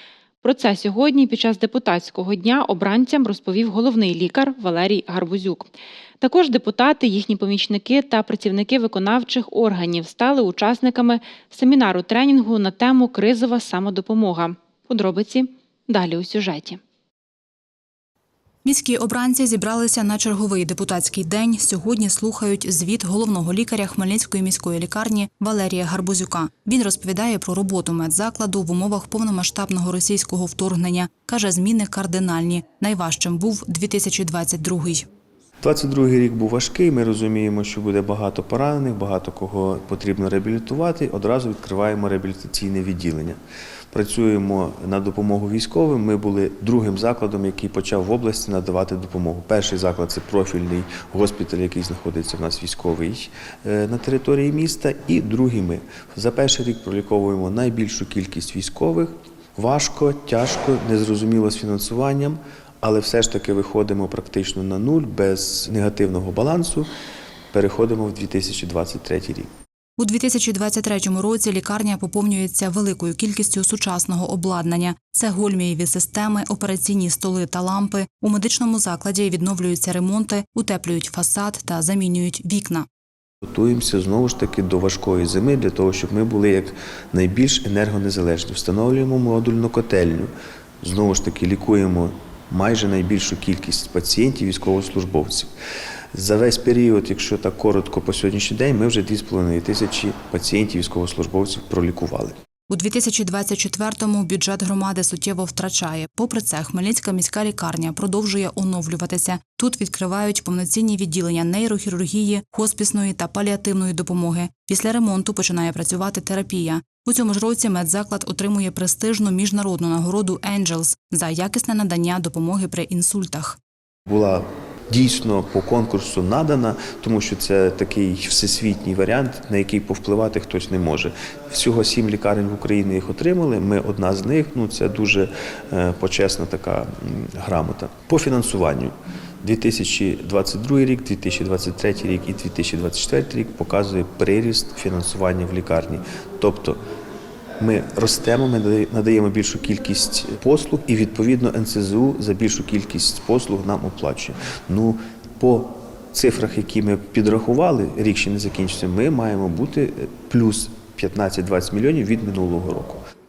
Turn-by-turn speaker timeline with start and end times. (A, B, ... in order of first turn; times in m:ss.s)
0:00.4-0:05.7 A
0:06.2-0:16.8 A
0:18.7-0:35.0 B
0:35.6-0:43.4 C
0:43.9-1:06.9 C
1:07.5-1:09.5 C
1:10.1-1:16.2 B
1:16.8-1:22.7 B
1:23.5-1:35.5 C
1:36.1-1:42.4 C
1:42.8-2:03.4 B
2:04.1-2:26.8 C
2:27.6-2:43.0 C